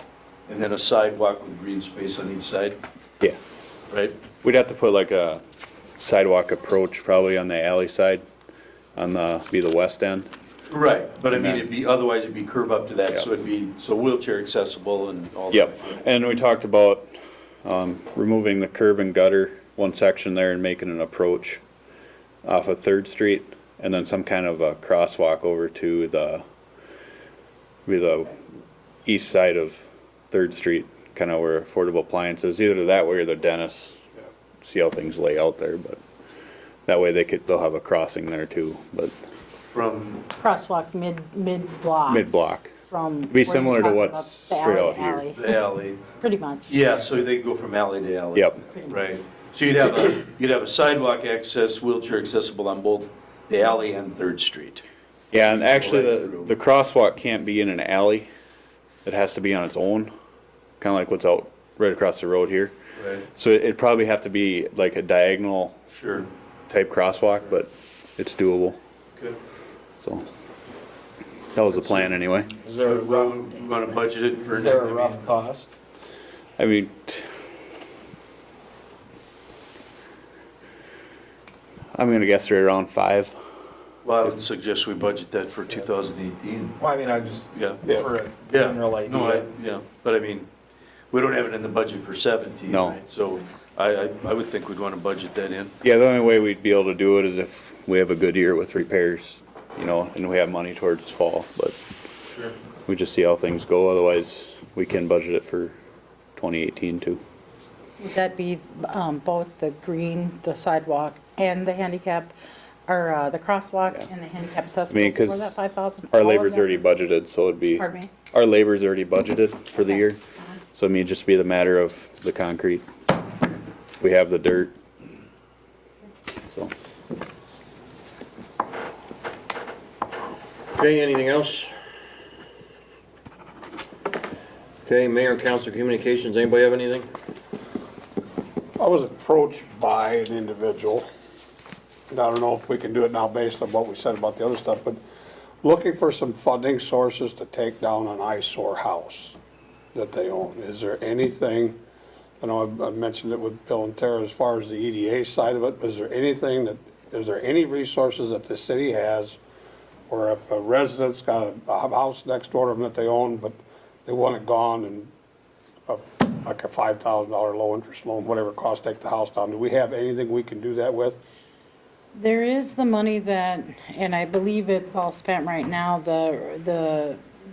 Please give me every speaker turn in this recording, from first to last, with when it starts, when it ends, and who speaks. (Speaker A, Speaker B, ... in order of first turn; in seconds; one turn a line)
Speaker A: 0.5-2.8
Speaker A: 3.9-4.1
Speaker B: 4.4-5.4
Speaker B: 6.0-8.2
Speaker B: 9.0-10.3
Speaker A: 10.7-15.9
Speaker B: 11.3-11.6
Speaker B: 15.5-17.1
Speaker B: 17.6-21.6
Speaker B: 22.4-26.4
Speaker B: 27.9-28.4
Speaker B: 29.1-29.8
Speaker B: 30.3-34.0
Speaker B: 34.6-36.0
Speaker B: 36.9-39.1
Speaker A: 39.7-40.2
Speaker C: 40.4-45.5
Speaker B: 42.1-42.7
Speaker B: 43.3-45.3
Speaker A: 45.3-46.0
Speaker C: 46.1-46.7
Speaker A: 46.7-54.8
Speaker B: 55.3-58.3
Speaker A: 55.6-56.5
Speaker B: 59.0-60.1
Speaker B: 60.8-62.7
Speaker A: 63.0-63.3
Speaker B: 63.4-65.8
Speaker A: 65.9-66.3
Speaker B: 66.7-68.8
Speaker B: 71.5-72.5
Speaker D: 72.6-73.4
Speaker A: 72.8-75.4
Speaker D: 74.5-75.7
Speaker B: 76.6-77.3
Speaker B: 81.9-83.3
Speaker A: 84.0-86.8
Speaker D: 86.8-89.5
Speaker A: 87.5-87.8
Speaker A: 88.5-90.5
Speaker A: 91.1-95.8
Speaker B: 92.7-93.0
Speaker B: 95.8-101.8
Speaker B: 102.9-105.8
Speaker B: 106.4-107.2
Speaker C: 108.0-112.3
Speaker C: 112.9-116.8
Speaker B: 114.9-115.5
Speaker B: 116.1-120.2
Speaker C: 117.7-118.1
Speaker C: 119.8-120.0
Speaker B: 120.8-122.8
Speaker B: 124.0-124.8
Speaker E: 130.7-131.7
Speaker E: 134.8-137.1
Speaker F: 138.8-141.1
Speaker F: 142.1-145.0
Speaker F: 145.6-149.3
Speaker F: 149.9-151.8
Speaker F: 152.4-159.4
Speaker F: 160.1-165.1
Speaker F: 165.9-171.2
Speaker C: 172.1-177.2